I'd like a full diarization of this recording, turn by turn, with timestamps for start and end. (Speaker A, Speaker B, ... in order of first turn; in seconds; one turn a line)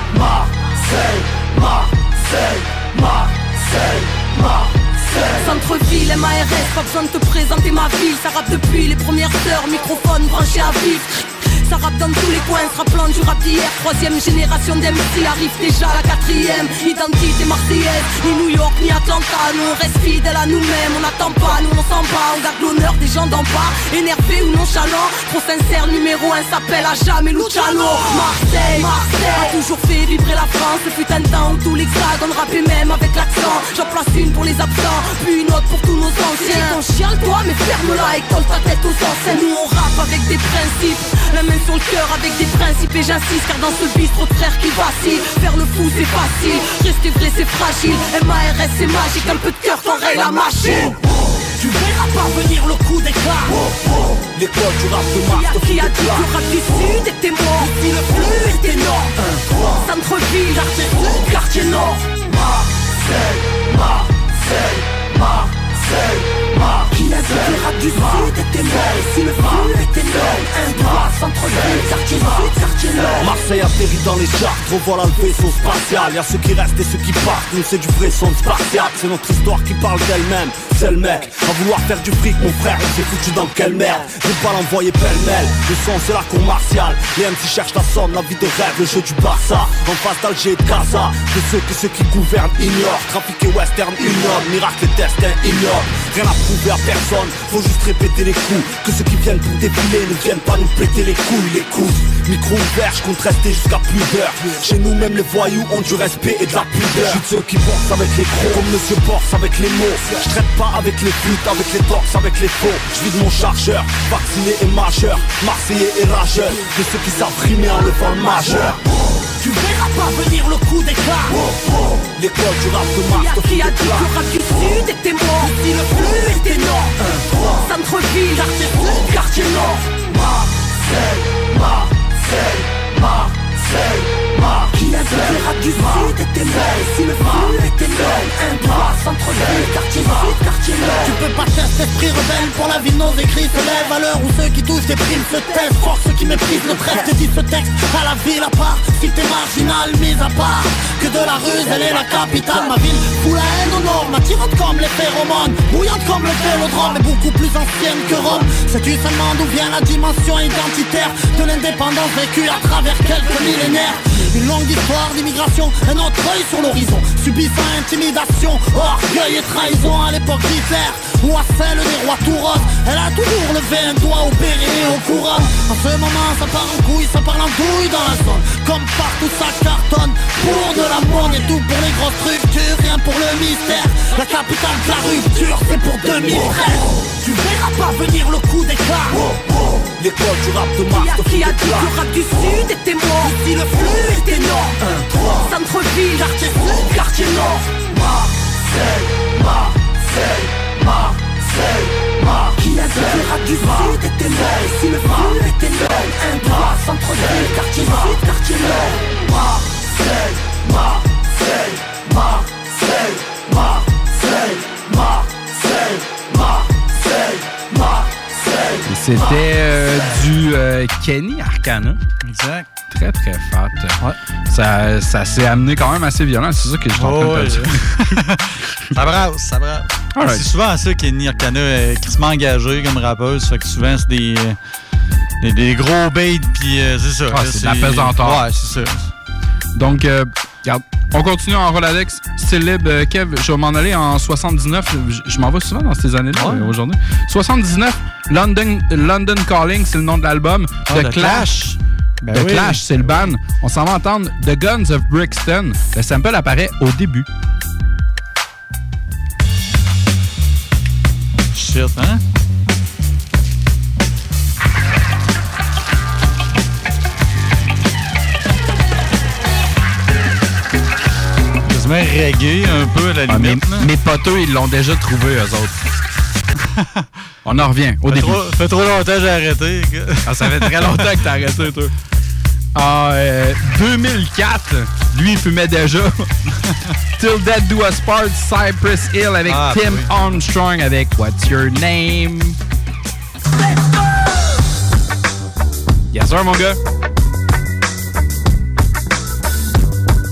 Speaker A: 5.2-51.0
Speaker A: 51.6-53.6
Speaker B: 54.4-55.3
Speaker A: 55.3-62.1
Speaker A: 66.8-73.2
Speaker B: 73.1-118.8
Speaker A: 119.4-121.3
Speaker B: 122.2-124.1
Speaker A: 123.1-129.9
Speaker A: 134.6-141.1
Speaker C: 141.0-186.6
Speaker A: 186.4-189.2
Speaker B: 190.1-190.8
Speaker A: 190.8-197.7
Speaker A: 202.5-209.0
Speaker D: 218.8-222.0
Speaker E: 222.2-222.7
Speaker D: 222.9-227.8
Speaker E: 227.0-234.6
Speaker D: 230.2-230.4
Speaker E: 235.4-239.1
Speaker D: 237.3-238.4
Speaker D: 239.8-251.8
Speaker E: 246.4-246.7
Speaker E: 250.9-253.1
Speaker D: 252.3-257.3
Speaker E: 261.5-262.2
Speaker E: 271.7-273.9
Speaker D: 273.3-275.8
Speaker E: 276.8-277.1
Speaker D: 277.4-278.4
Speaker E: 278.1-281.1
Speaker D: 280.3-281.9
Speaker D: 282.8-286.3
Speaker D: 287.2-292.6
Speaker E: 289.5-290.1
Speaker D: 296.1-296.8